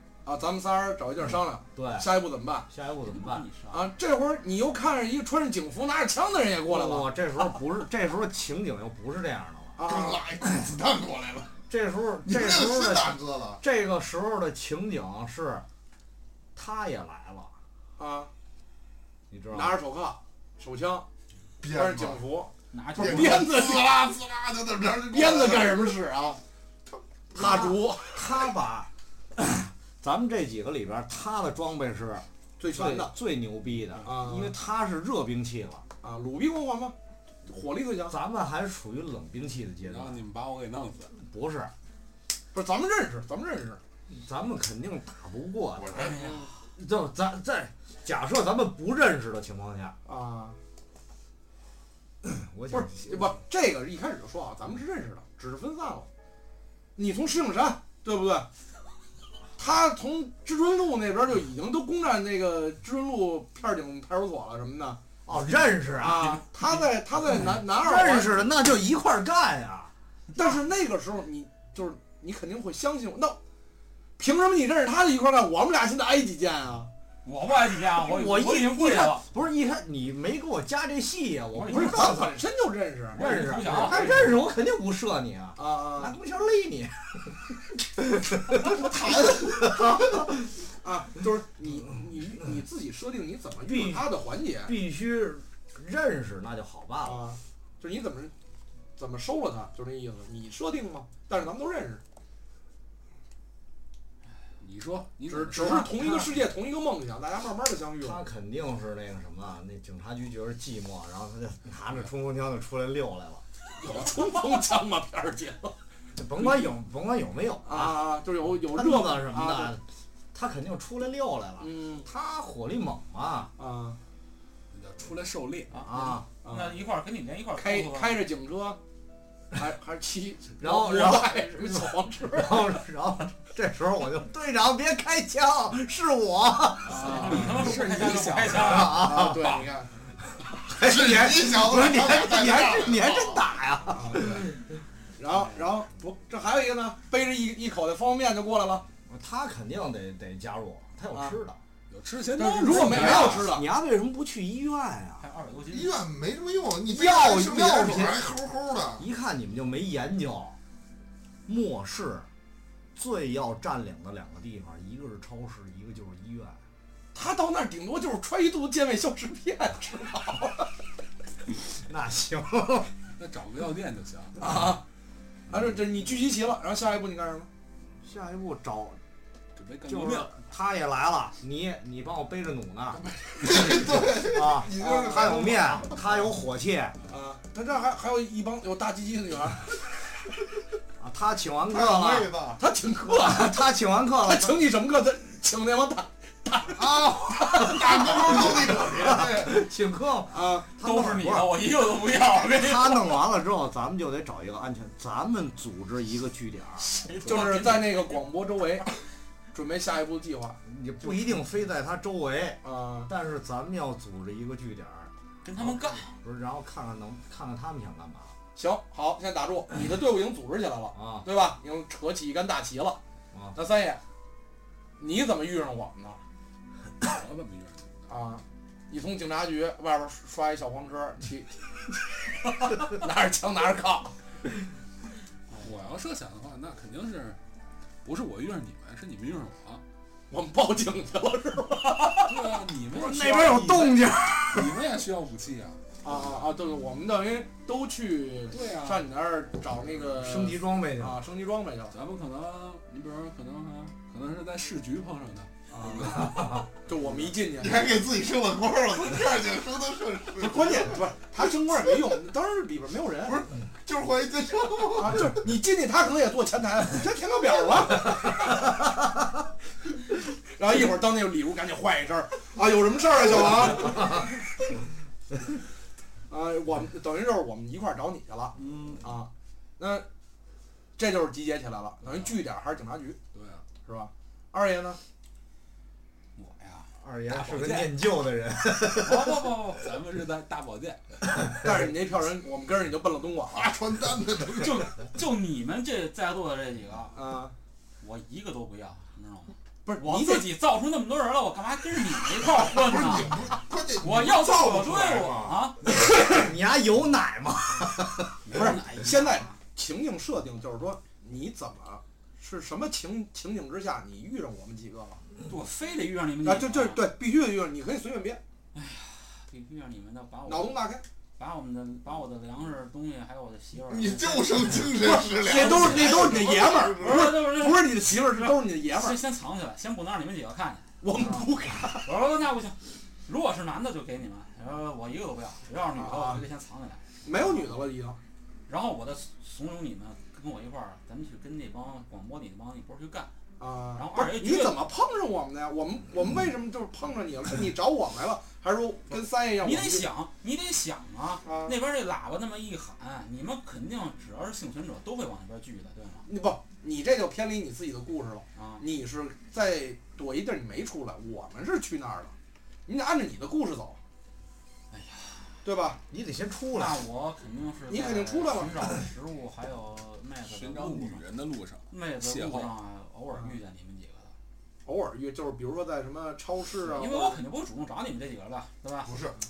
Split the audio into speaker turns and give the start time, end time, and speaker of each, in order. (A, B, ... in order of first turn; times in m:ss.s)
0:00.2-0:02.7 A
0:01.8-0:02.1 B
0:02.7-0:03.5 B
0:03.0-0:03.9 C
0:03.7-0:07.1 A
0:06.7-0:09.8 B
0:09.8-0:10.2 A
0:09.8-0:11.5 D
0:11.7-0:15.6 B
0:12.3-0:13.6 D
0:16.6-0:17.5 B
0:18.0-0:18.3 A
0:19.3-0:19.8 B
0:19.5-0:21.1 A
0:21.6-0:22.2 D
0:21.7-0:24.0 A
0:22.7-0:23.5 C
0:23.0-0:26.0 D
0:25.1-0:26.4 A
0:26.9-0:27.7 D
0:27.3-0:28.3 A
0:27.4-0:35.8 B
0:32.6-0:33.1 A
0:34.0-0:34.5 A
0:36.0-0:37.0 A
0:37.5-0:38.2 A
0:38.1-0:40.2 B
0:39.8-0:41.1 E
0:41.2-0:41.7 B
0:42.5-0:43.8 A
0:44.1-0:46.1 B
0:45.8-0:46.2 D
0:46.0-0:46.5 C
0:46.1-0:46.5 A
0:46.8-0:50.0 B
0:50.0-0:50.6 A
0:52.2-0:53.4 B
0:52.7-0:56.1 A
0:57.0-0:58.5 A
0:59.6-1:05.0 A
1:05.3-1:06.4 B
1:06.0-1:08.5 A
1:06.1-1:06.9 C
1:07.3-1:09.9 B
1:10.3-1:13.4 A
1:14.2-1:16.9 A
1:17.2-1:19.2 C
1:18.0-1:22.3 B
1:21.6-1:22.0 C
1:21.6-1:24.4 A
1:23.2-1:24.3 C
1:23.2-1:30.4 B
1:25.6-1:26.2 A
1:28.8-1:29.6 D
1:30.8-1:34.7 A
1:33.7-1:34.1 B
1:34.6-1:37.2 B
1:37.0-1:38.3 A
1:39.0-1:42.0 A
1:44.6-1:45.9 E
1:45.3-1:48.2 A
1:48.0-1:53.4 B
1:53.8-1:55.8 A
1:56.2-2:03.5 B
1:56.4-1:56.7 A
1:57.6-1:59.8 A
2:01.6-2:02.1 A
2:03.6-2:04.0 A
2:04.7-2:05.8 E
2:05.7-2:08.2 C
2:05.8-2:06.2 B
2:06.4-2:06.8 A
2:07.6-2:08.8 A
2:09.6-2:12.7 A
2:10.6-2:17.5 B
2:16.8-2:19.0 E
2:16.9-2:19.1 C
2:17.0-2:17.6 A
2:18.6-2:19.6 B
2:18.9-2:19.9 A
2:20.5-2:24.6 B
2:20.8-2:23.4 D
2:23.9-2:24.4 A
2:25.2-2:28.9 A
2:29.1-2:31.6 B
2:31.9-2:33.5 E
2:32.4-2:33.7 A
2:32.7-2:35.2 B
2:32.7-2:33.2 C
2:35.2-2:35.9 C
2:35.7-2:39.0 D
2:36.9-2:38.3 B
2:39.0-2:40.6 B
2:41.5-2:42.3 B
2:43.0-2:46.6 B
2:47.1-2:50.7 A
2:51.9-2:52.9 B
2:53.2-2:54.4 E
2:54.4-2:54.8 A
2:55.5-2:57.5 A
2:58.0-2:59.0 B
2:59.6-3:00.3 E
2:59.9-3:03.0 B
3:03.0-3:03.8 E
3:03.4-3:06.0 D
3:03.5-3:07.0 B
3:04.8-3:05.3 A
3:07.1-3:09.8 A
3:11.0-3:12.3 B
3:11.7-3:12.6 D
3:12.6-3:13.7 A
3:13.2-3:14.6 B
3:14.2-3:18.4 A
3:16.8-3:19.6 D
3:18.0-3:21.5 B
3:20.3-3:20.7 A
3:20.8-3:23.2 C
3:22.5-3:26.9 B
3:26.8-3:28.2 C
3:27.2-3:28.9 A
3:29.5-3:30.6 A
3:30.6-3:38.3 B
3:32.6-3:33.1 A
3:35.4-3:36.1 C
3:38.6-3:43.0 A
3:41.0-3:41.3 B
3:43.6-3:44.0 A
3:45.0-3:46.2 A
3:47.0-3:47.9 E
3:48.1-3:51.6 A
3:52.7-3:54.1 A
3:55.5-3:55.8 C
3:55.6-3:57.4 E
3:58.0-3:59.8 E
4:00.3-4:02.3 A
4:02.2-4:06.5 E
4:02.9-4:04.7 B
4:06.0-4:11.9 A
4:08.5-4:09.1 E
4:10.2-4:11.2 B
4:11.9-4:16.5 E
4:15.7-4:16.4 A
4:16.1-4:16.6 B
4:16.9-4:18.0 A
4:17.6-4:21.0 D
4:20.4-4:23.5 A
4:23.3-4:25.3 D
4:25.0-4:28.3 A
4:30.6-4:34.2 A
4:36.3-4:40.1 A
4:38.6-4:39.0 E
4:41.0-4:43.2 A
4:42.1-4:42.4 E
4:43.3-4:43.6 E
4:43.8-4:45.0 A
4:46.4-4:46.9 C
4:47.0-4:49.5 B
4:47.3-4:47.9 E
4:49.0-4:49.9 C
4:49.7-4:51.2 E
4:51.6-4:53.7 A
4:53.5-4:54.9 D
4:54.5-4:57.1 C
4:57.1-4:57.5 A
4:58.0-5:05.9 C
4:59.9-5:00.5 A
5:02.6-5:05.7 D
5:06.0-5:08.4 B
5:06.1-5:06.4 A
5:08.4-5:09.6 C
5:08.5-5:15.2 A
5:15.4-5:17.0 C
5:16.4-5:18.4 A
5:18.7-5:20.8 C
5:20.4-5:21.0 A
5:21.4-5:37.8 C
5:23.8-5:27.3 D
5:25.0-5:29.2 A
5:31.0-5:32.1 A
5:36.0-5:36.4 A
5:37.2-5:38.2 A
5:38.7-5:43.3 C
5:43.6-5:50.1 A
5:44.0-5:44.8 C
5:49.6-5:56.3 C
5:51.4-5:51.8 A
5:56.3-6:02.3 A
5:58.6-5:58.8 C
6:02.9-6:04.0 A
6:04.9-6:05.5 C
6:05.6-6:06.0 A
6:06.1-6:07.0 B
6:06.7-6:11.3 C
6:07.9-6:09.0 A
6:10.4-6:12.8 E
6:11.9-6:14.3 C
6:14.9-6:17.4 A
6:16.8-6:19.1 C
6:19.0-6:19.4 D